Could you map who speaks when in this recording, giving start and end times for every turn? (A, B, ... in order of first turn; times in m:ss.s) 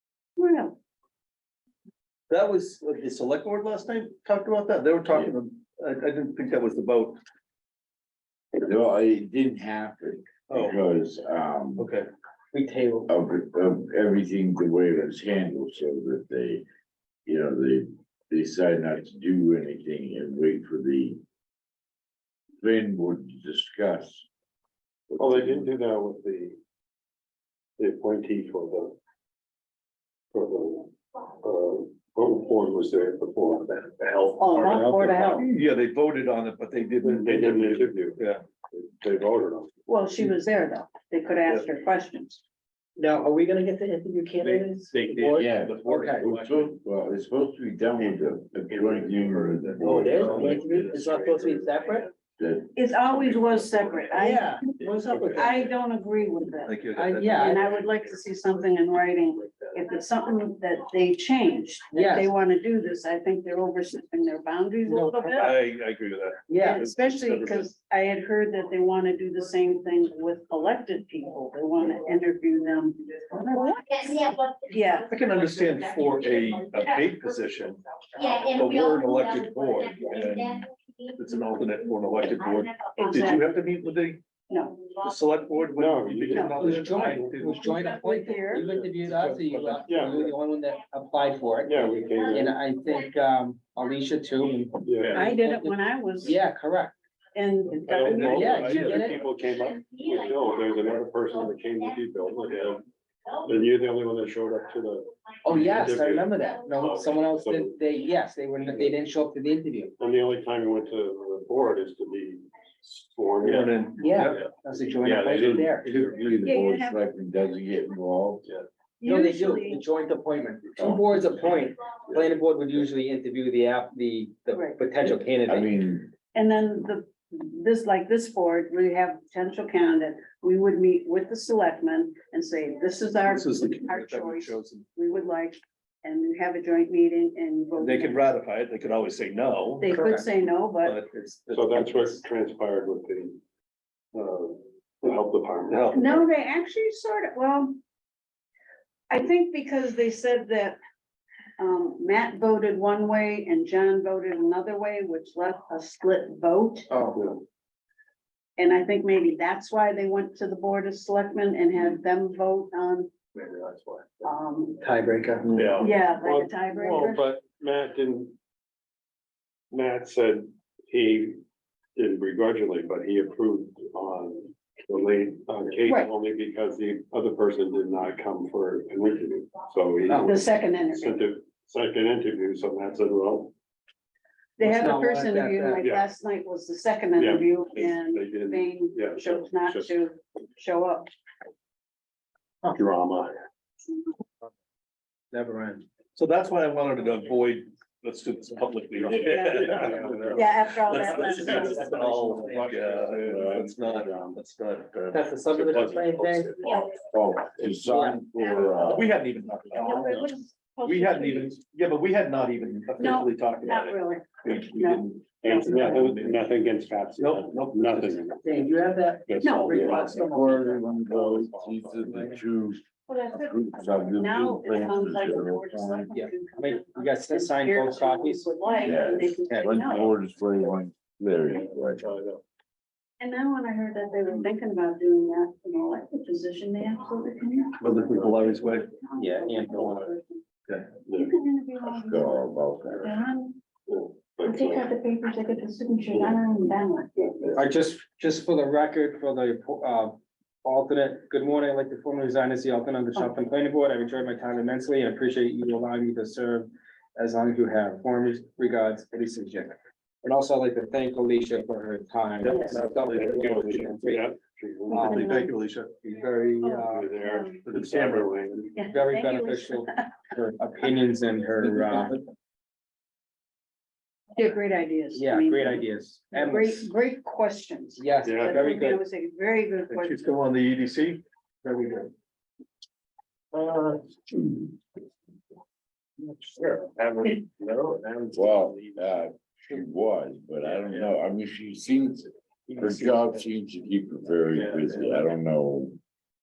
0:00.4-0:00.8 A
0:02.3-0:07.2 B
0:05.1-0:05.3 C
0:08.6-0:11.9 C
0:10.5-0:10.8 B
0:11.8-0:12.1 B
0:12.5-0:13.1 D
0:13.1-0:16.6 C
0:17.3-0:21.2 C
0:22.6-0:24.3 C
0:25.1-0:25.7 C
0:25.2-0:26.6 E
0:27.8-0:29.0 E
0:30.3-0:30.9 E
0:31.4-0:35.4 E
0:34.4-0:35.5 A
0:34.7-0:35.0 D
0:35.2-0:38.4 B
0:37.0-0:39.7 E
0:39.9-0:42.4 A
0:43.0-0:46.4 D
0:44.4-0:46.8 B
0:45.3-0:50.9 C
0:49.8-0:52.1 D
0:50.0-0:50.9 B
0:50.1-0:52.1 E
0:52.4-0:52.8 C
0:52.8-1:05.6 A
0:54.2-0:55.7 D
0:55.1-0:55.5 B
0:56.6-0:58.2 B
0:56.9-0:57.8 D
1:01.9-1:02.3 D
1:04.9-1:05.4 D
1:05.3-1:07.7 B
1:06.5-1:06.9 D
1:06.5-1:14.1 A
1:13.8-1:15.3 F
1:14.7-1:15.1 A
1:15.0-1:17.8 B
1:16.0-1:16.5 F
1:18.2-1:21.7 F
1:18.4-1:24.2 B
1:22.5-1:23.1 F
1:23.0-1:23.5 A
1:24.5-1:24.9 A
1:25.0-1:27.6 B
1:25.7-1:27.6 E
1:26.3-1:26.8 A
1:26.6-1:37.0 D
1:27.4-1:28.7 A
1:28.5-1:29.1 E
1:29.0-1:29.8 B
1:29.9-1:30.3 E
1:31.6-1:32.6 E
1:34.8-1:35.3 E
1:35.1-1:36.4 A
1:37.3-1:38.7 A
1:37.7-1:39.2 B
1:37.8-1:42.8 E
1:38.2-1:39.2 D
1:39.6-1:41.0 F
1:43.4-1:47.8 E
1:45.4-1:49.9 D
1:46.5-1:46.8 F
1:48.6-1:48.9 E
1:50.0-1:54.4 E
1:53.4-1:54.4 B
1:54.0-1:55.9 D
1:55.0-1:56.4 E
1:55.4-1:55.7 B
1:55.8-1:58.5 C
1:56.4-1:57.0 A
1:59.0-1:59.8 A
1:59.0-2:05.7 D
2:00.8-2:01.1 C
2:04.5-2:04.8 A
2:05.1-2:06.1 C
2:06.3-2:18.3 A
2:13.2-2:14.9 B
2:17.7-2:20.0 B
2:19.8-2:21.0 A
2:19.9-2:20.3 D
2:20.8-2:22.2 B
2:21.5-2:23.4 E
2:24.1-2:26.0 E
2:25.7-2:26.2 B
2:25.9-2:27.8 A
2:29.1-2:30.8 A
2:31.6-2:36.9 A
2:36.9-2:37.2 D
2:37.1-2:37.4 E
2:38.6-2:43.1 A
2:43.4-2:44.0 E
2:44.2-2:44.8 A
2:44.8-2:45.9 D
2:45.6-2:48.4 E
2:45.8-2:47.2 A
2:49.7-2:51.4 E
2:52.0-3:03.5 E
2:55.9-2:56.1 A
3:00.1-3:00.4 D
3:00.2-3:01.3 A
3:04.6-3:11.1 A
3:04.6-3:05.8 D
3:05.8-3:06.1 E
3:07.2-3:10.0 E
3:12.7-3:13.4 E
3:15.3-3:15.8 D
3:16.2-3:26.0 B
3:19.0-3:20.4 E
3:19.2-3:22.1 A
3:21.4-3:22.9 D
3:22.8-3:23.7 C
3:25.1-3:26.6 D
3:26.0-3:26.4 E
3:26.8-3:29.1 C
3:27.8-3:28.3 D
3:28.4-3:29.0 A
3:28.8-3:36.5 B
3:29.7-3:31.6 A
3:33.0-3:36.1 A
3:35.4-3:40.3 E
3:37.2-3:38.3 B
3:38.4-3:42.4 D
3:39.4-3:39.9 A
3:39.7-3:46.1 C
3:43.1-3:50.1 A
3:46.1-3:48.8 D
3:48.8-3:52.1 C
3:49.5-3:49.9 D
3:51.5-3:52.4 E
3:53.2-4:00.4 A
3:57.8-3:58.9 B
3:57.8-3:58.8 E
3:59.2-4:00.1 D
4:01.1-4:01.3 E
4:01.1-4:03.6 A
4:01.8-4:03.1 C
4:03.9-4:04.9 E
4:04.4-4:07.6 A
4:07.6-4:24.3 D
4:22.4-4:24.0 B
4:22.9-4:25.5 E
4:24.9-4:25.5 A
4:24.9-4:25.5 D
4:25.0-4:25.9 B
4:26.0-4:27.1 D
4:26.6-4:27.6 A
4:26.7-4:28.8 E
4:27.7-4:28.4 B
4:28.8-4:30.0 A
4:28.9-4:32.2 D
4:34.4-4:40.4 A
4:35.1-4:36.9 D
4:38.0-4:39.0 D
4:38.2-4:38.6 E
4:39.9-4:42.1 B
4:43.6-4:44.0 B
4:48.3-4:56.0 C
4:54.5-4:55.2 B